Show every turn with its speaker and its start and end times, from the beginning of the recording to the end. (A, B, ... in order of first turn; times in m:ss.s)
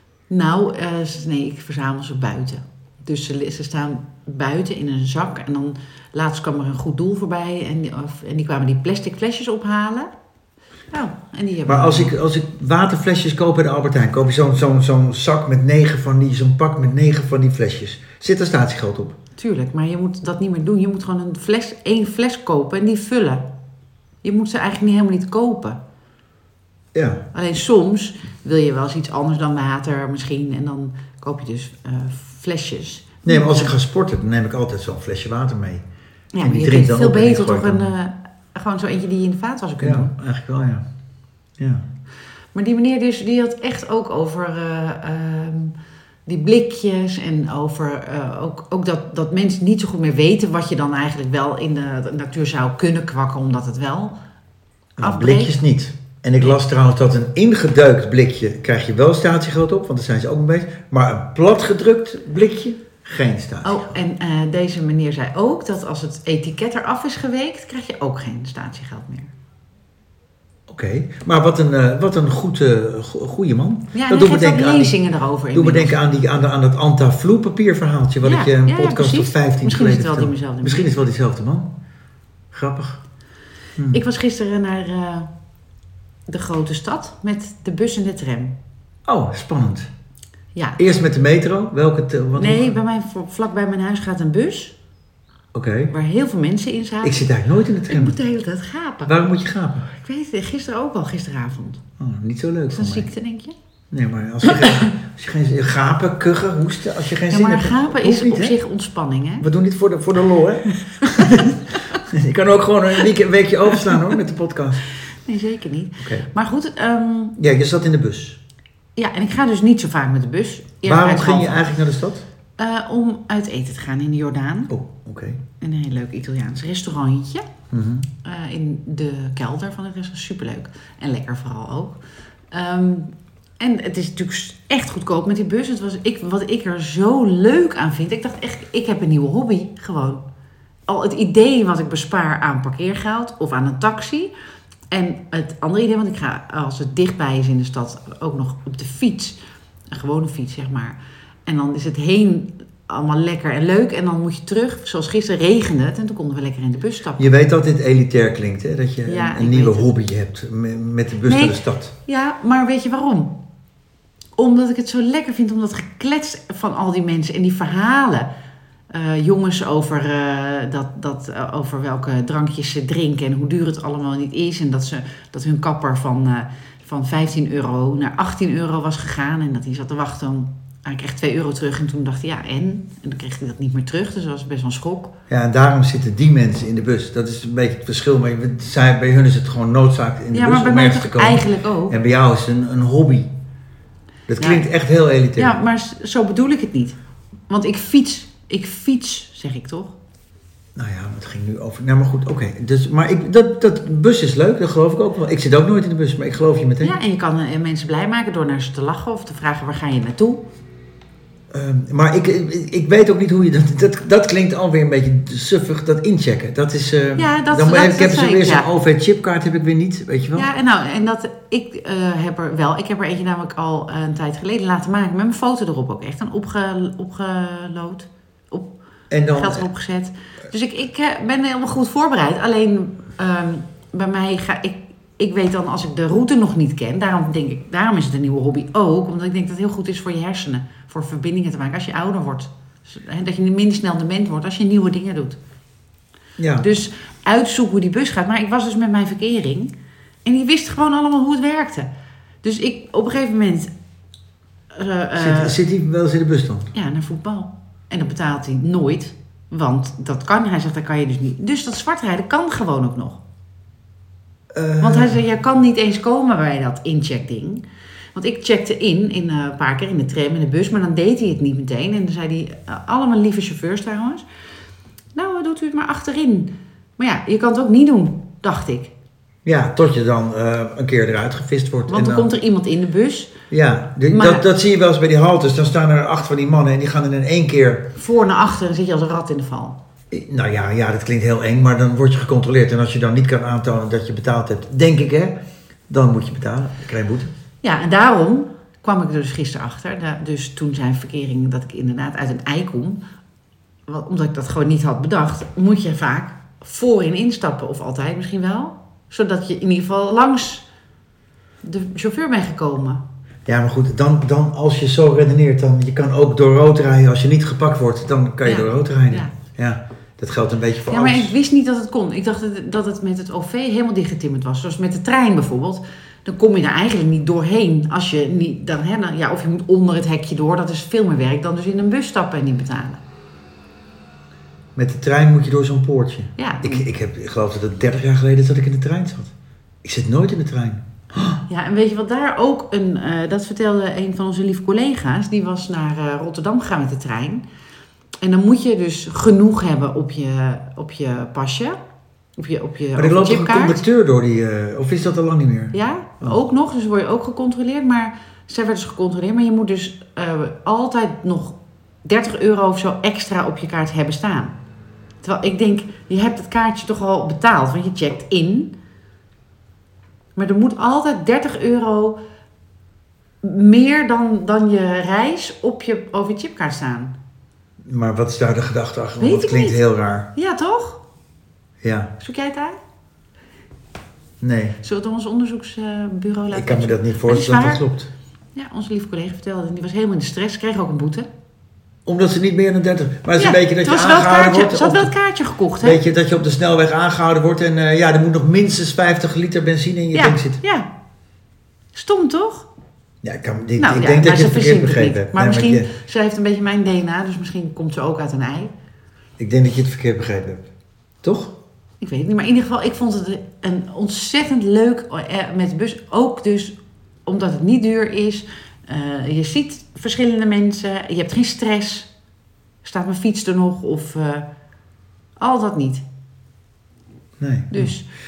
0:00.3-0:10.1 A
0:10.9-0:12.1 A
0:11.7-0:19.2 B
0:19.4-0:23.4 A
0:24.2-0:25.8 A
0:26.9-0:27.2 B
0:27.3-0:33.7 A
0:33.2-0:35.8 B
0:36.3-0:40.1 A
0:36.4-0:37.9 B
0:39.8-0:40.8 B
0:41.6-0:41.8 B
0:42.5-0:45.8 A
0:46.2-0:54.2 A
0:55.0-1:04.0 B
0:55.0-0:55.6 A
1:03.6-1:09.3 A
1:10.7-1:14.9 B
1:13.9-1:16.0 A
1:15.5-1:21.7 B
1:18.2-1:20.9 A
1:22.5-1:23.0 B
1:23.9-1:25.3 A
1:26.3-1:28.6 A
1:29.0-1:29.9 B
1:30.5-1:30.8 A
1:30.8-1:32.8 B
1:32.4-1:34.8 A
1:35.5-1:35.9 B
1:35.9-1:37.2 A
1:37.0-1:38.2 B
1:37.9-1:39.1 A
1:39.1-1:39.9 B
1:40.0-1:41.8 A
1:42.0-1:43.1 B
1:42.7-1:43.6 A
1:43.9-1:48.6 B
1:47.3-1:49.5 A
1:49.4-1:54.8 B
1:51.0-1:51.5 A
1:55.1-1:57.4 A
1:56.0-1:56.3 B
1:57.4-1:58.4 B
1:59.0-2:01.6 A
2:00.8-2:02.2 B
2:02.6-2:04.7 A
2:04.7-2:05.4 B
2:05.6-2:07.5 A
2:07.7-2:08.1 B
2:08.2-2:12.0 A
2:12.5-2:20.2 A
2:20.9-2:24.3 A
2:24.9-2:29.4 A
2:29.9-2:37.3 A
2:37.2-2:41.9 B
2:39.1-2:39.9 A
2:41.2-2:43.4 A
2:44.4-2:48.3 A
2:48.9-3:05.1 A
3:05.3-3:13.3 B
3:10.3-3:12.0 A
3:14.3-3:15.6 B
3:14.4-3:14.6 A
3:15.4-3:17.0 A
3:17.5-3:20.0 A
3:20.8-3:27.0 B
3:26.8-3:30.4 A
3:31.5-3:40.5 B
3:37.2-3:38.7 A
3:40.4-3:48.7 A
3:49.1-3:49.6 B
3:49.3-4:05.4 A
4:06.4-4:06.7 B
4:06.6-4:09.7 A
4:10.2-4:11.9 A
4:12.4-4:13.7 A
4:14.7-4:15.6 A
4:15.2-4:16.7 B
4:16.7-4:23.2 A
4:24.5-4:25.2 B
4:24.8-4:27.6 A
4:28.1-4:34.2 A
4:35.1-4:38.9 A
4:39.4-4:42.3 B
4:41.9-4:43.4 A
4:43.5-4:47.9 B
4:44.1-4:44.5 A
4:48.0-4:49.8 A
4:50.1-4:55.4 B
4:55.9-4:57.3 B
4:57.6-5:03.0 A
5:03.9-5:10.6 A
5:11.6-5:13.0 A
5:13.5-5:21.3 B
5:18.4-5:19.3 A
5:20.9-5:33.0 A
5:34.8-5:39.3 B
5:36.4-5:36.9 A
5:39.8-5:41.4 B
5:41.5-5:47.4 A
5:48.2-5:51.8 A
5:52.4-5:53.8 A
5:53.0-5:56.4 B
5:55.7-6:04.6 A
6:05.2-6:08.7 A
6:10.4-6:12.2 A
6:13.4-6:17.1 A
6:17.8-6:20.3 B
6:19.2-6:19.8 A
6:20.3-6:21.0 A
6:21.8-6:22.1 B
6:22.2-6:22.8 A
6:24.4-6:24.8 B
6:24.8-6:27.8 A
6:26.5-6:28.1 B
6:28.6-6:31.3 A
6:32.1-6:35.1 B
6:33.4-6:36.0 A
6:35.8-6:40.6 B
6:40.1-6:40.9 A
6:41.9-6:42.7 A
6:43.2-6:45.9 B
6:43.8-6:48.7 A
6:49.4-6:50.7 B
6:51.2-6:51.5 B
6:52.0-6:56.8 A
6:57.2-7:02.1 A
7:02.8-7:04.5 A
7:05.4-7:06.0 A
7:07.4-7:08.0 B
7:07.7-7:08.1 A